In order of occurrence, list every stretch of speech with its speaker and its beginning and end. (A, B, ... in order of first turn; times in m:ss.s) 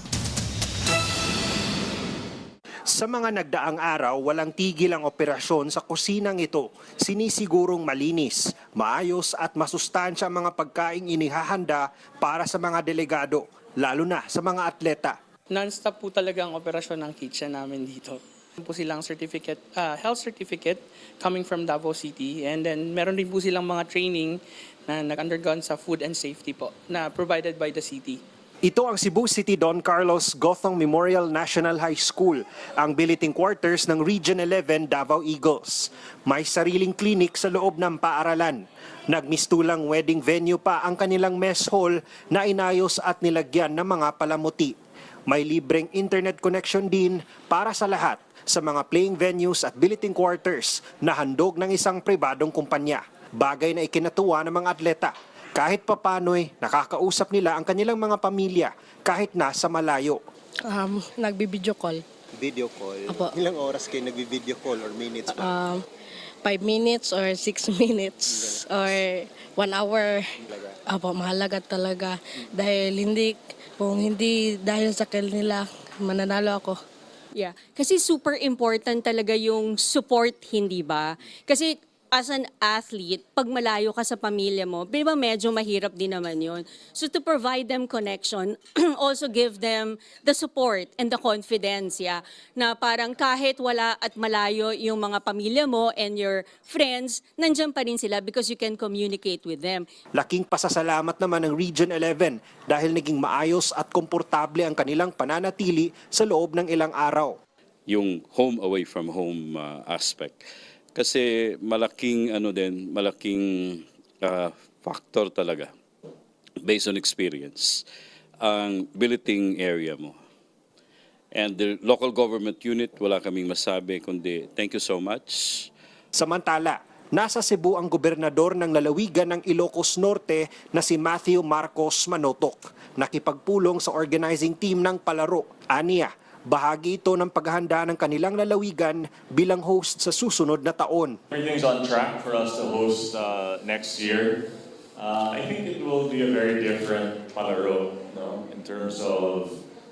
0:02.9-0:15.2 A
0:15.5-0:28.2 B
0:28.6-0:44.7 A
0:45.3-1:00.2 A
1:00.6-1:02.0 C
1:02.4-1:05.3 D
1:03.1-1:03.3 C
1:05.3-1:05.8 C
1:06.4-1:10.3 C
1:10.9-1:16.8 C
1:17.3-1:39.8 E
1:40.2-1:47.4 A
1:47.9-1:55.7 F
1:56.6-1:57.8 F
1:58.4-2:00.2 F
2:01.3-2:05.7 F
2:06.1-2:21.2 A
2:21.3-2:24.3 G
2:25.0-2:29.6 G